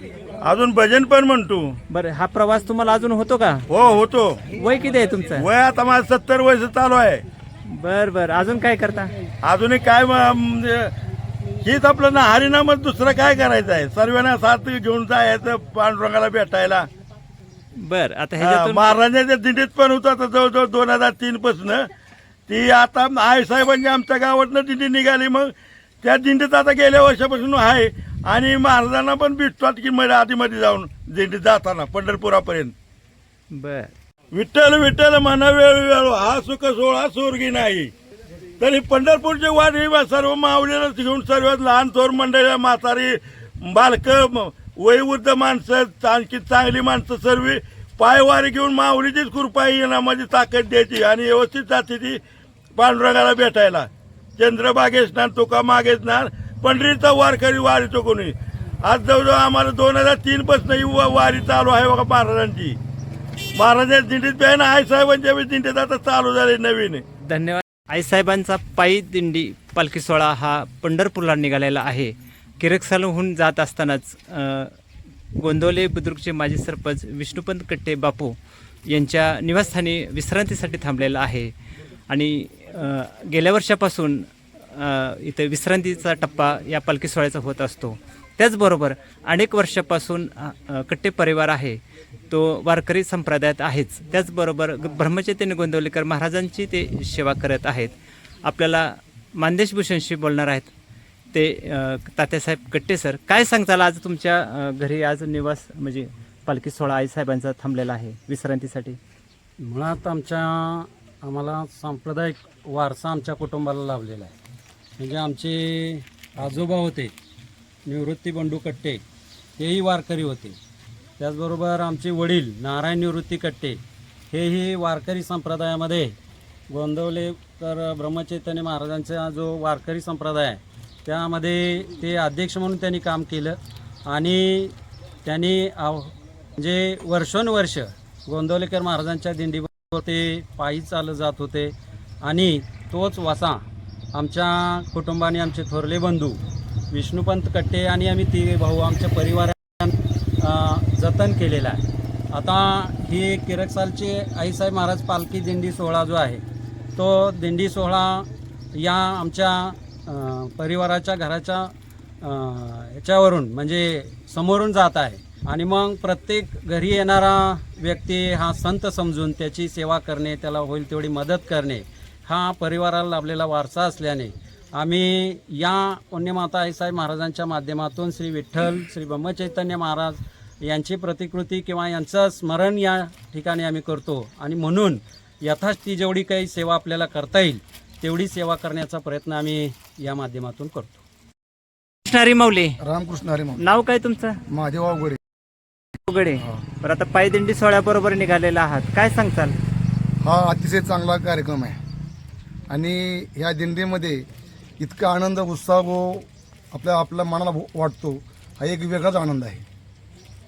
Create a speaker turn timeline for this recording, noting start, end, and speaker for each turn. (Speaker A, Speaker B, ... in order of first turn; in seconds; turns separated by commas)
Speaker A: 0.4-1.8, Speaker B: 1.9-3.6, Speaker A: 3.7-4.4, Speaker B: 4.6-5.5, Speaker A: 5.4-7.2, Speaker B: 7.7-9.1, Speaker A: 9.4-10.9, Speaker A: 11.6-16.9, Speaker B: 17.8-19.0, Speaker A: 18.4-21.9, Speaker A: 22.5-32.7, Speaker B: 33.5-33.9, Speaker A: 34.3-37.9, Speaker A: 38.6-52.2, Speaker A: 52.8-62.8, Speaker A: 63.6-67.0, Speaker B: 67.2-74.7, Speaker B: 75.4-78.4, Speaker B: 78.9-81.5, Speaker B: 82.1-100.7, Speaker B: 101.3-109.0, Speaker C: 109.6-114.3, Speaker C: 115.0-117.1, Speaker C: 117.9-119.0, Speaker C: 119.6-120.6, Speaker C: 121.2-123.8, Speaker C: 124.3-126.2, Speaker C: 126.7-143.6, Speaker C: 144.1-156.4, Speaker C: 157.0-191.0, Speaker B: 192.1-192.8, Speaker D: 192.8-193.6, Speaker B: 193.6-194.4, Speaker D: 194.5-195.2, Speaker B: 196.1-199.6, Speaker D: 200.2-201.8, Speaker D: 202.7-204.3, Speaker D: 204.8-209.6